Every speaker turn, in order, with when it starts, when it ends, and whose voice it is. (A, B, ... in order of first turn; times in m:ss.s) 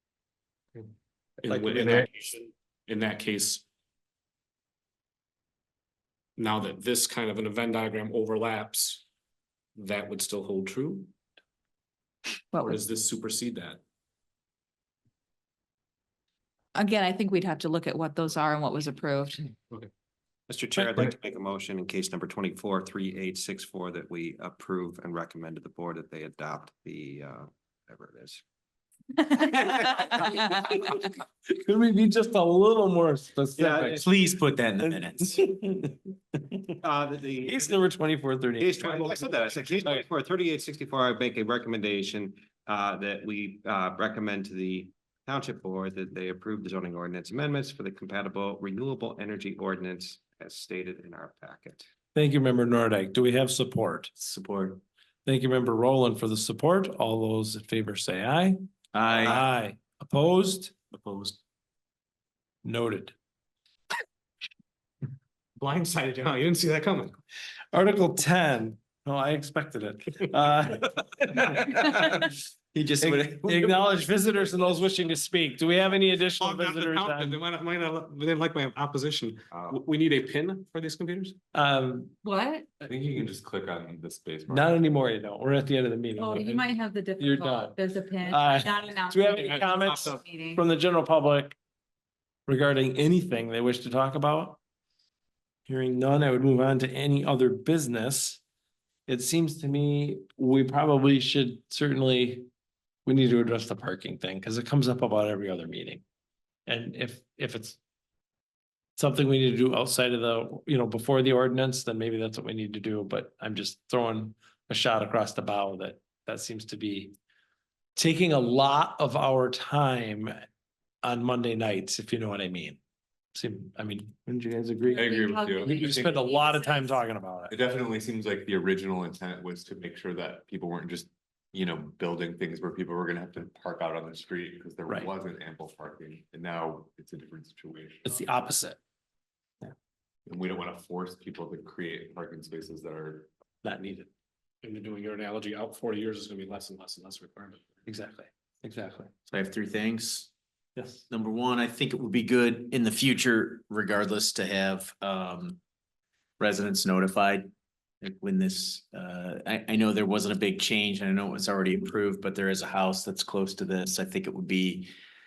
0:01.4-0:03.6 A
0:06.4-0:09.0 A
0:09.8-0:11.1 A
0:12.5-0:12.8 B
0:12.6-0:13.8 A
0:16.8-0:19.5 B
0:20.5-0:28.4 C
0:29.6-0:34.1 D
0:33.6-0:34.1 C
0:34.0-0:35.4 E
0:34.8-0:36.8 D
0:36.8-0:37.8 C
0:37.4-0:40.0 D
0:38.6-0:51.9 C
0:52.2-0:54.1 D
0:54.2-0:54.8 E
0:55.2-0:58.6 D
0:58.9-0:59.4 E
0:59.2-1:00.7 D
1:00.9-1:01.4 A
1:02.6-1:03.1 D
1:05.6-1:07.2 A
1:07.7-1:12.3 D
1:12.7-1:13.8 E
1:13.0-1:17.4 D
1:16.4-1:21.4 A
1:19.5-1:19.8 F
1:21.5-1:22.1 D
1:22.2-1:22.7 G
1:22.8-1:24.8 F
1:24.5-1:31.6 D
1:26.2-1:30.6 G
1:29.3-1:30.2 A
1:32.5-1:34.6 D
1:35.7-1:38.4 D
1:39.1-1:42.5 D
1:43.1-1:46.0 D
1:46.7-1:47.8 D
1:49.0-1:57.1 D
1:58.0-2:00.3 D
2:01.0-2:02.8 D
2:03.4-2:07.5 D
2:04.9-2:07.0 G
2:04.9-2:06.1 F
2:07.5-2:18.3 F
2:18.0-2:18.8 D
2:20.3-2:23.3 F
2:23.6-2:24.1 D
2:24.6-2:27.7 A
2:27.9-2:29.1 D
2:29.3-2:30.3 E
2:30.8-2:31.0 D
2:31.1-2:35.6 E
2:36.4-2:37.5 E
2:38.0-2:44.9 E